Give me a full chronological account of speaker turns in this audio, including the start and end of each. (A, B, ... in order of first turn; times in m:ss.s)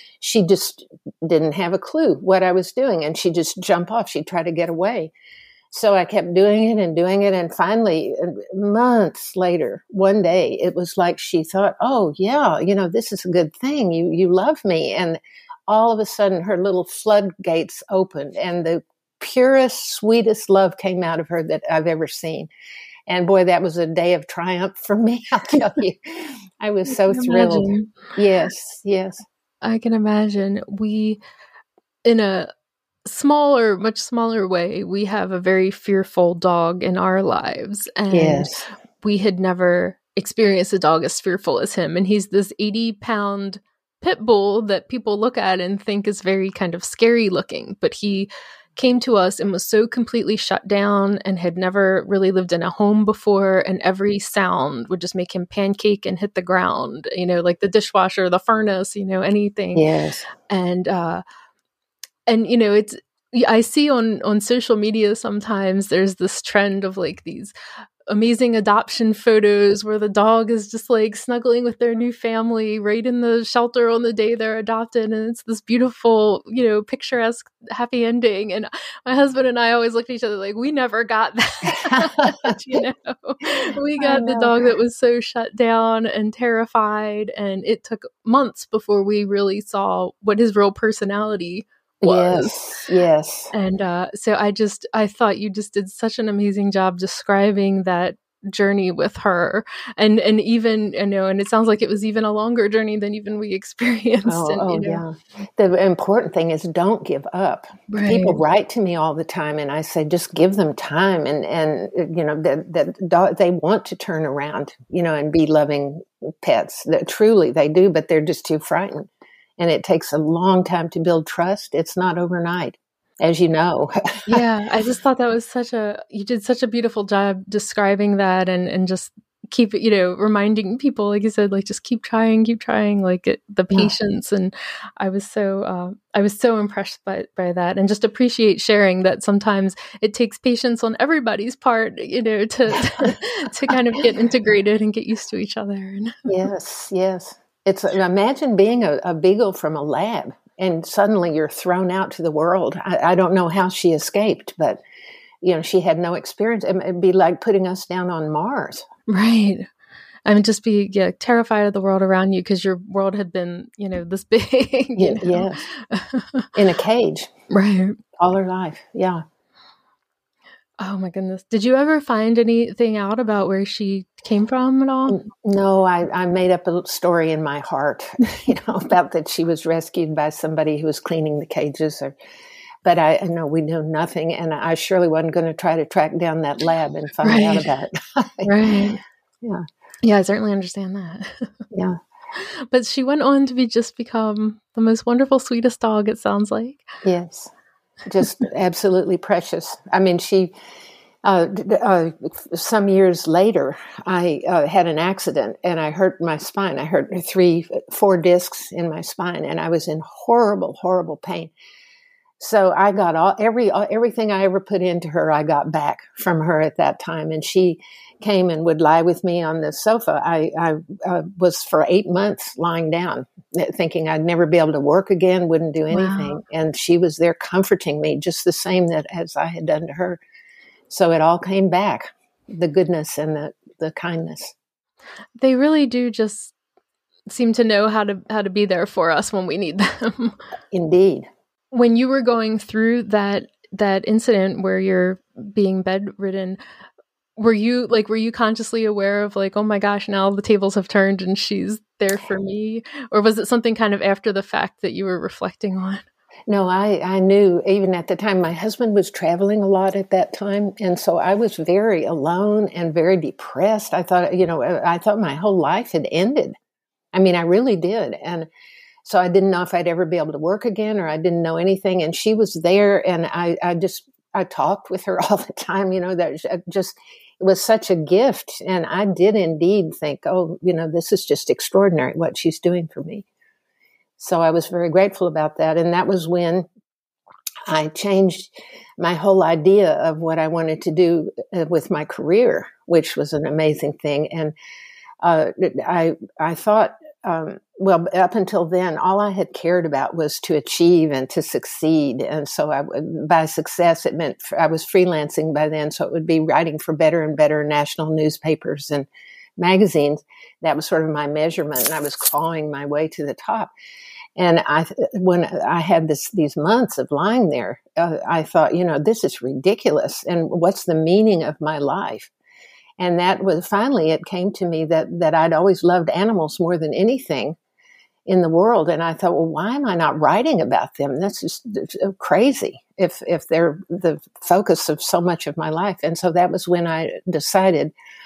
0:00.2-0:05.1 A
0:05.7-0:22.5 A
0:23.1-0:29.2 A
0:27.0-0:27.9 B
0:29.6-0:31.2 B
0:32.0-0:32.5 B
0:33.0-0:38.5 B
0:38.1-0:38.7 A
0:39.0-0:59.9 B
0:59.7-1:00.3 A
1:00.5-1:01.2 B
1:02.3-1:07.5 B
1:08.1-1:32.5 B
1:21.7-1:22.6 A
1:24.0-1:24.5 A
1:32.0-1:33.5 A
1:33.5-1:45.0 B
1:44.2-2:04.4 A
1:47.9-1:48.4 B
2:04.3-2:26.2 B
2:26.3-2:34.8 A
2:35.4-2:38.8 A
2:39.1-2:39.7 B
2:40.2-2:46.5 B
2:45.0-2:45.6 A
2:46.5-2:47.3 A
2:47.5-2:48.0 B
2:48.2-2:49.2 A
2:50.8-2:55.2 B
2:55.1-3:02.1 A
3:02.8-3:08.5 A
3:07.2-3:07.7 B
3:08.4-3:09.0 B
3:10.0-3:11.6 B
3:11.7-3:12.0 A
3:12.3-3:16.8 B
3:17.0-3:17.5 A
3:18.0-3:20.5 A
3:21.2-3:31.5 A
3:32.4-3:50.2 A
3:45.9-3:46.4 B
3:50.9-3:54.5 A
3:55.4-3:56.5 B
3:57.3-4:00.4 B
4:00.7-4:01.3 A
4:01.7-4:06.6 B
4:07.4-4:16.0 B
4:16.5-4:26.5 A
4:27.1-4:28.5 A
4:29.0-4:43.2 A
4:44.2-4:46.6 A
4:47.7-4:54.5 A
4:55.2-5:09.1 A
5:09.6-5:13.7 A
5:14.4-5:22.3 A
5:23.0-5:27.6 A
5:28.3-5:37.9 A